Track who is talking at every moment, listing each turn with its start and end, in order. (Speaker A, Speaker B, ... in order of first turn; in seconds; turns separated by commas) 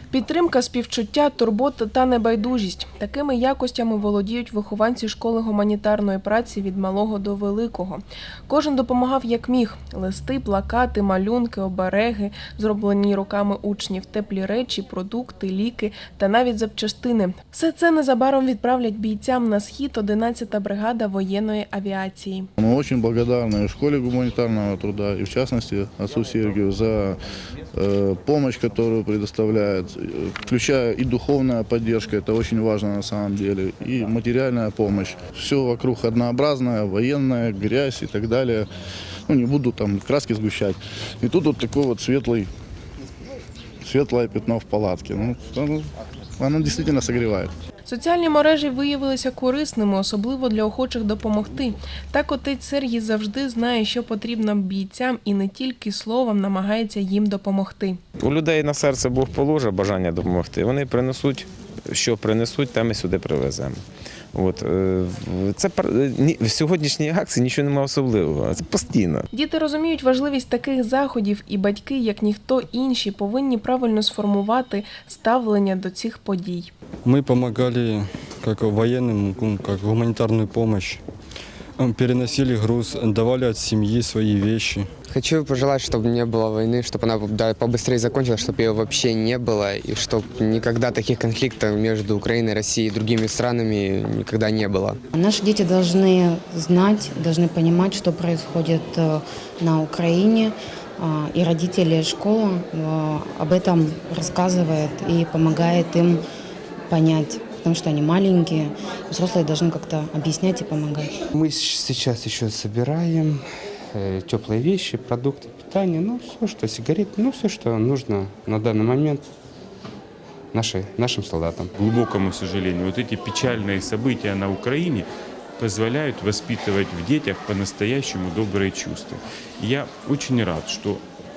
Speaker A: 0.1-22.5, Speaker B: 22.6-27.2, Speaker B: 27.7-38.7, Speaker B: 39.3-42.5, Speaker B: 43.8-47.5, Speaker A: 47.9-58.0, Speaker C: 58.2-69.3, Speaker A: 69.3-76.7, Speaker D: 77.1-81.0, Speaker D: 81.8-84.9, Speaker E: 85.1-95.0, Speaker F: 95.1-106.2, Speaker F: 106.9-111.2, Speaker G: 111.3-119.2, Speaker G: 120.5-121.7, Speaker H: 121.8-131.0